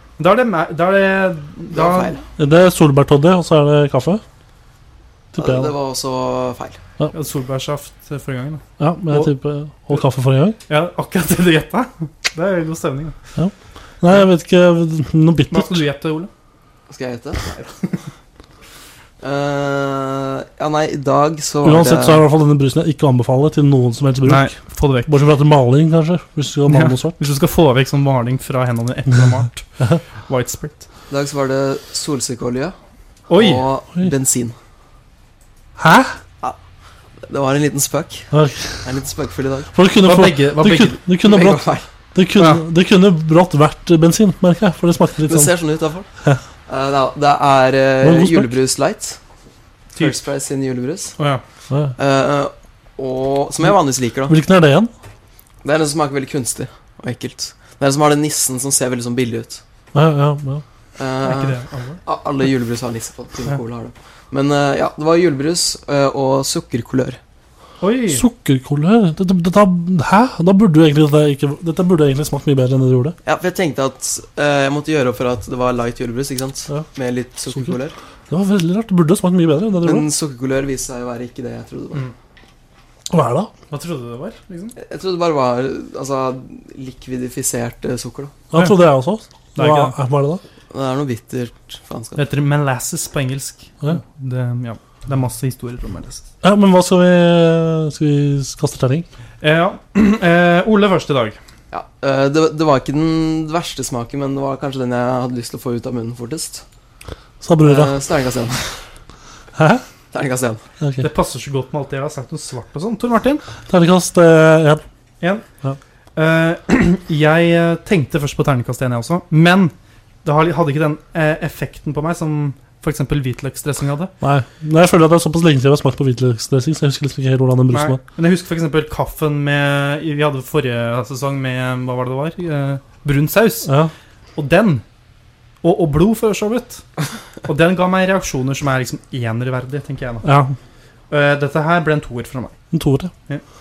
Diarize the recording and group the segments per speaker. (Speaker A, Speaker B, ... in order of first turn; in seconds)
Speaker A: 0.2-2.2, 7.1-9.3, 10.7-13.2, 15.5-16.3, 17.5-18.0, 24.2-25.1, 26.7-29.7, 30.3-30.9, 33.3-33.6, 40.0-41.0, 42.4-42.6, 51.2-51.4, 61.2-62.0, 67.8-68.2, 83.7-84.7, 89.6-90.0, 92.2-96.3, 99.4-101.4, 111.0-113.4, 115.2-115.5, 116.2-124.1, 127.7-133.7, 134.4-134.8, 135.6-136.8, 137.4-140.3, 141.1-142.6
Speaker B: 1.7-2.2, 5.4-6.8, 16.9-17.4, 19.2-22.2, 31.1-32.8, 33.3-34.5, 37.2-38.3, 38.8-39.7, 41.2-41.9, 45.2-46.1, 46.7-49.2, 50.0-51.1, 52.0-54.4, 55.6-59.6, 61.0-67.2, 73.2-78.0, 79.8-82.1, 84.8-88.4, 90.7-92.2, 101.7-106.6, 107.6-108.7, 110.1-110.6
Speaker C: 2.4-4.2, 5.3-5.7, 8.8-10.6, 13.4-15.8, 21.6-27.2, 35.8-36.2, 38.3-38.9, 39.7-45.5, 48.0-48.5, 51.7-52.0, 54.3-54.9, 59.9-60.6, 68.1-73.2, 77.5-77.8, 78.3-80.1, 83.1-83.5, 88.5-90.4, 96.4-99.1, 107.4-108.0, 109.5-109.8, 110.8-111.1, 113.7-114.8, 124.2-128.0, 133.7-133.9, 140.2-140.6, 142.7-143.1